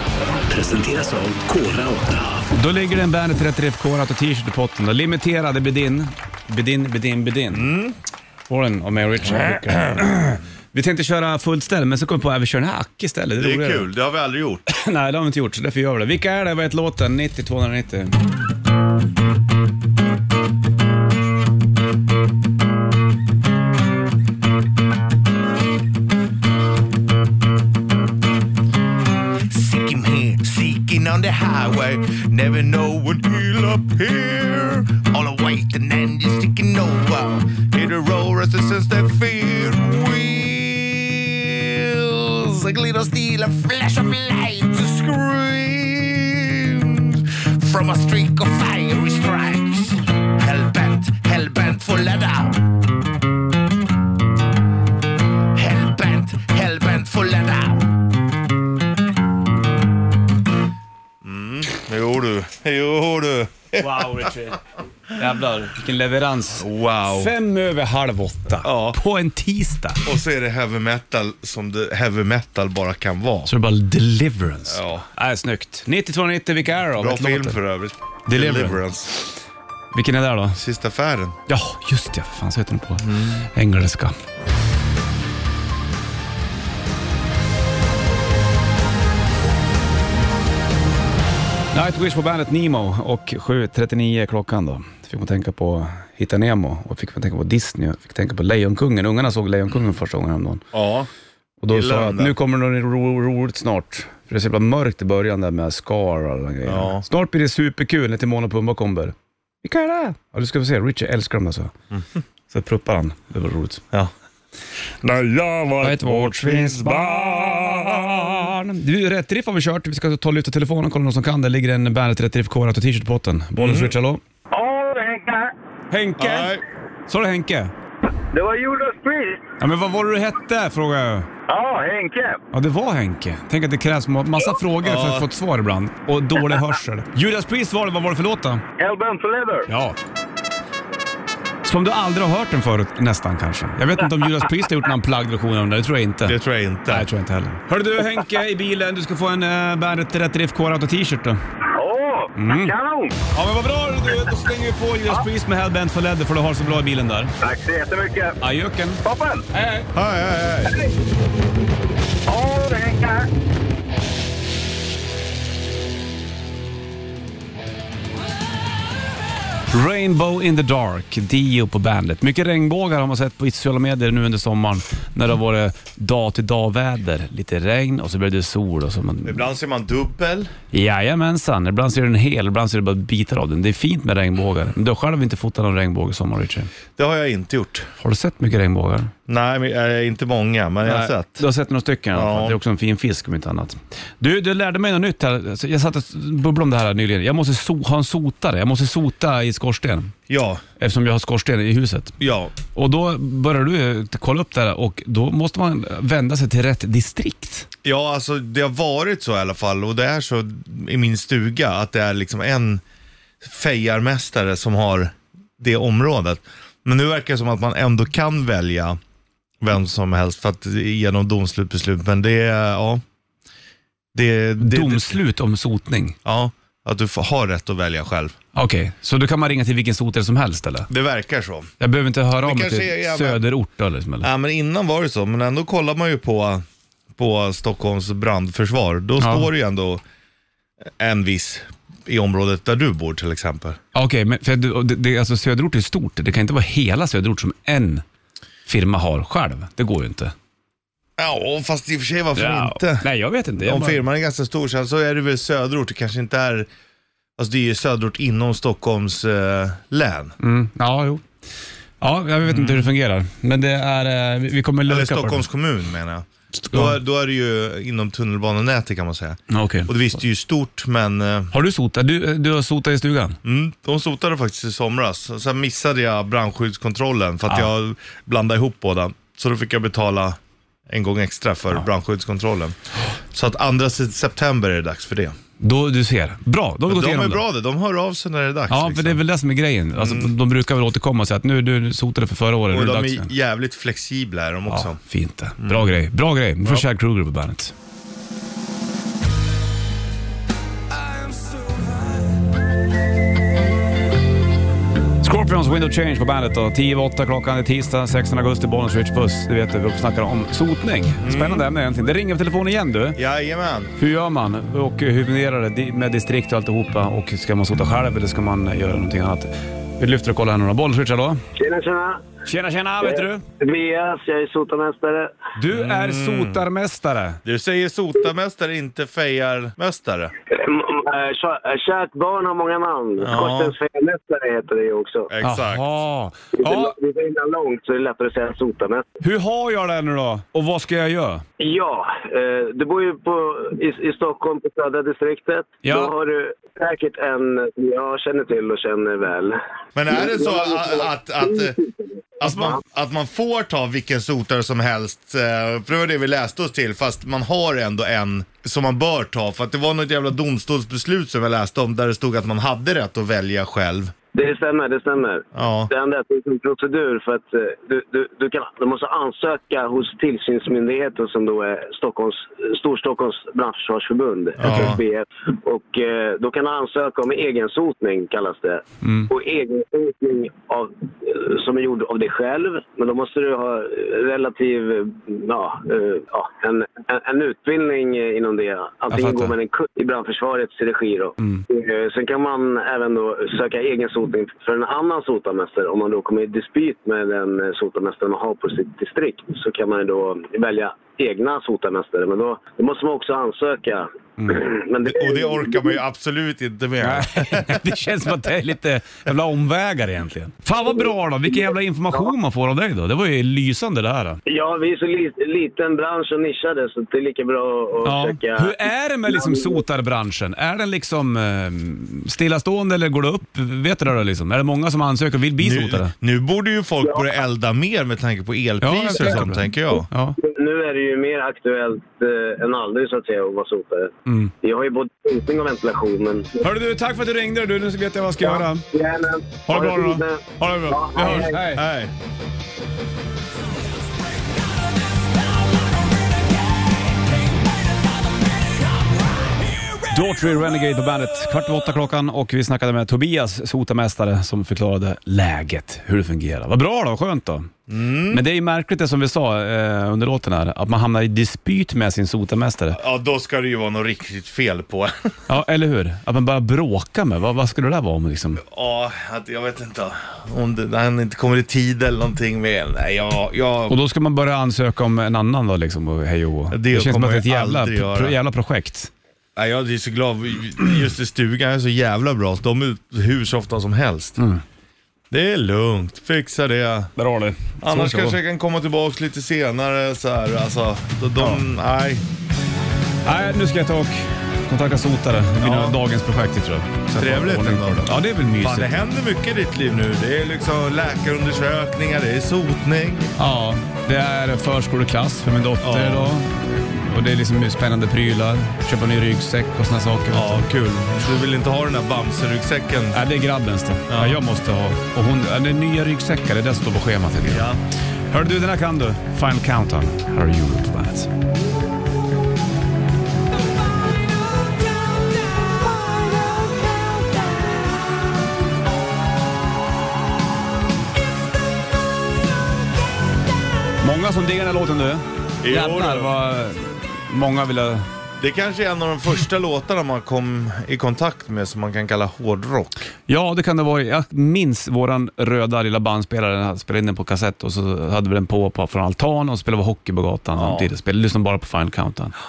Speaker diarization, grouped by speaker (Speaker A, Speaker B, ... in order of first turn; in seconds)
Speaker A: 0.5-1.5, 2.4-7.7, 8.5-13.9, 14.7-18.1, 63.8-64.6, 65.1-70.0, 73.5-77.6, 78.3-78.8, 79.9-80.6, 81.5-84.2, 91.7-100.6, 101.6-111.7, 112.5-113.8, 115.8-124.2, 125.9-126.5, 127.1-127.7, 129.6-131.3, 132.5-138.6, 139.7-140.0, 141.7-146.3, 146.9-151.4, 152.3-152.8, 153.3-157.3, 158.4-159.0, 159.5-159.8, 169.7-179.4, 180.7-186.7, 188.0-189.1, 190.8-200.1, 200.8-202.2, 202.7-207.7, 224.6-226.2, 228.5-230.9, 231.8-234.3, 239.2-239.5, 243.9-248.0, 248.7-250.3, 252.3-254.0, 260.4-261.2, 262.0-265.5, 266.6-267.0, 269.5-269.9, 271.5-273.4, 285.6-287.4, 288.7-293.3, 294.7-297.7, 305.2-313.2, 314.0-321.4, 322.4-323.4, 325.6-327.4, 335.4-336.9, 339.2-341.4, 345.8-346.1, 352.4-352.8, 374.6-374.9, 379.0-379.3, 389.1-389.5, 404.4-404.6, 407.0-414.4, 418.0-426.1, 428.8-430.4, 434.2-434.5, 436.6-438.8, 439.7-441.8, 450.1-457.7, 458.3-463.0, 465.5-468.6, 473.9-479.1, 484.4-484.6, 487.2-488.4, 493.2-499.0, 503.4-510.7, 513.1-517.7, 518.3-521.3, 534.0-538.1, 543.3-552.3
Speaker B: 7.5-8.0, 9.3-10.0, 13.4-14.6, 29.5-52.7, 55.5-57.9, 61.2-64.3, 66.5-67.3, 68.6-69.0, 70.0-73.5, 74.7-75.0, 77.0-79.1, 80.5-81.4, 83.0-83.5, 100.7-101.1, 101.7-102.3, 106.6-107.0, 115.0-118.5, 123.6-123.9, 126.2-126.6, 134.8-135.3, 146.2-147.1, 159.9-160.8, 179.2-180.5, 187.0-187.9, 189.3-191.4, 192.1-192.6, 200.3-200.6, 202.2-202.5, 207.8-212.8, 213.4-219.0, 219.6-223.0, 224.2-225.2, 226.2-228.3, 230.9-231.7, 232.4-233.4, 234.2-236.6, 237.2-240.0, 241.0-243.8, 251.2-253.1, 253.6-256.7, 257.4-260.4, 262.5-262.9, 264.9-271.5, 273.4-280.4, 280.9-282.8, 283.3-285.4, 286.9-289.2, 290.0-290.3, 292.7-295.0, 295.6-295.9, 311.2-311.7, 313.2-313.9, 325.7-326.6, 327.4-330.3, 333.2-333.8, 335.3-335.8, 350.0-351.8, 352.4-364.1, 365.5-365.9, 374.6-375.0, 405.0-407.9, 425.6-430.1, 441.3-442.1, 457.9-458.4, 462.9-465.3, 468.6-474.0, 476.7-478.4, 479.6-484.4, 485.3-487.1, 487.8-492.2, 495.6-496.0, 497.2-503.3, 505.8-506.4, 510.3-513.2, 514.1-514.4, 517.5-517.8, 535.6-536.3, 538.4-543.0, 550.5-550.9
Speaker C: 124.5-125.5, 128.3-129.4, 131.5-132.4, 138.8-139.7, 151.7-153.2, 157.4-158.4, 159.0-159.5, 162.2-163.3
Speaker D: 321.6-322.3, 323.6-325.4, 330.5-335.3, 336.6-339.1, 341.6-352.0, 364.3-406.0, 414.5-418.8, 419.3-419.8, 430.4-436.6, 438.4-441.7